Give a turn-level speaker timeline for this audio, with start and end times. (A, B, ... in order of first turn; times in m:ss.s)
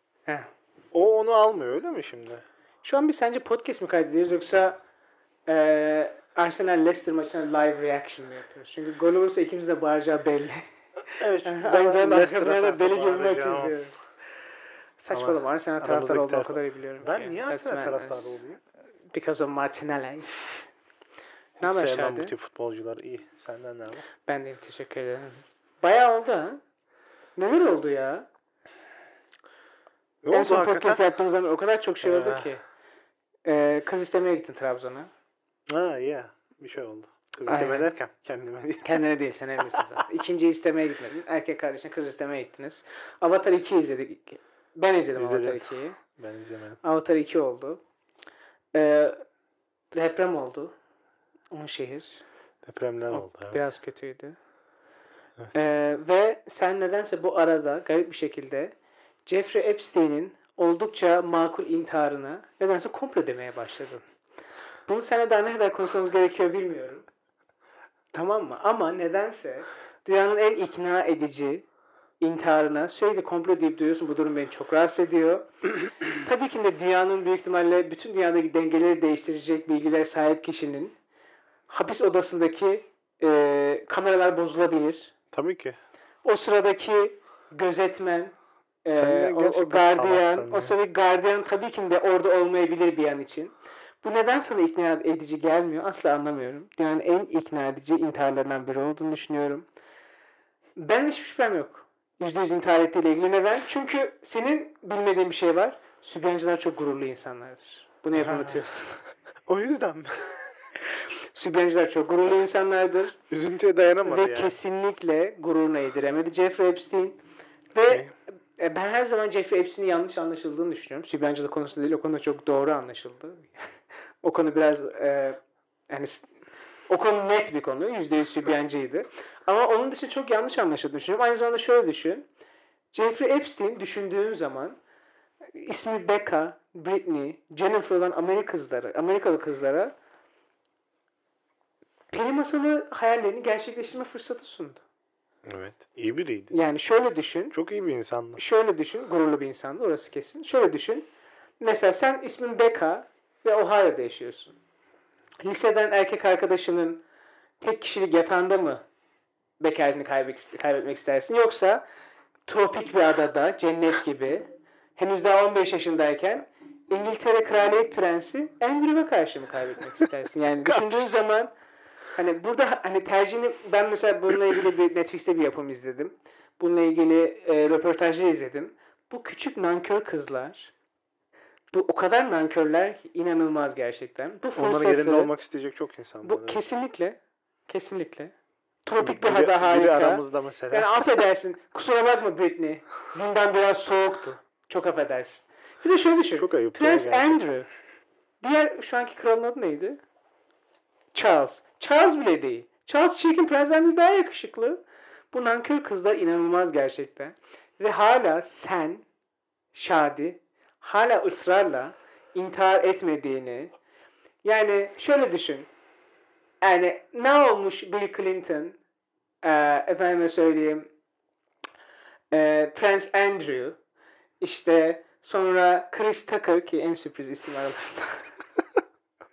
0:00.9-0:02.4 A
0:02.8-0:04.8 B
0:05.5-0:10.6 B
0:11.1-0:13.7 A
0:11.4-0:13.9 B
0:15.0-0:18.4 B
0:15.1-0:18.6 A
0:19.1-0:20.3 B
0:21.6-0:24.0 A
0:21.6-0:22.3 B
0:24.2-0:26.6 B
0:27.4-0:28.3 B
0:30.2-0:31.0 A
0:30.3-0:32.6 B
0:32.0-0:32.5 A
0:33.4-0:35.1 B
0:35.7-0:39.0 A
0:37.4-0:37.9 B
0:38.8-0:46.0 B
0:45.2-0:46.8 A
0:46.8-0:47.8 B
0:48.7-0:49.2 B
0:49.9-0:50.7 B
0:51.5-0:52.2 B
0:52.6-0:53.6 A
0:53.1-0:54.4 B
0:55.5-0:58.7 B
0:59.3-1:04.0 B
1:04.9-1:07.0 B
1:08.1-1:11.6 B
1:12.2-1:15.5 B
1:16.1-1:20.9 B
1:21.7-1:25.1 B
1:25.3-1:25.8 A
1:26.2-1:39.6 B
1:28.9-1:30.7 A
1:40.8-1:49.0 B
1:48.2-1:48.6 A
1:49.5-1:50.4 A
1:51.3-1:53.2 B
1:53.3-1:54.6 A
1:54.0-1:57.2 B
1:57.7-2:03.6 B
2:04.2-2:05.4 B
2:05.9-2:06.3 B
2:06.9-2:12.3 B
2:12.9-2:14.8 B
2:15.6-2:19.9 B
2:22.1-2:24.8 B
2:25.4-2:26.5 A
2:26.5-2:27.6 B
2:27.5-2:28.4 A
2:28.4-2:31.0 B
2:31.6-2:34.6 B
2:35.4-2:37.0 B
2:37.6-2:38.8 B
2:39.6-2:41.8 B
2:42.5-2:51.5 B
2:50.6-2:51.0 A
2:52.1-3:00.7 B
3:01.7-3:05.3 B
3:04.6-3:06.6 A
3:06.2-3:08.3 B
3:08.8-3:17.7 B
3:09.0-3:11.0 A
3:16.4-3:17.4 A
3:18.4-3:20.0 B
3:21.1-3:24.8 B
3:25.3-3:29.0 B
3:29.7-3:33.7 B
3:34.4-3:35.7 B
3:36.6-3:38.8 B
3:39.4-3:40.9 B
3:42.3-3:43.8 B
3:44.4-3:48.2 B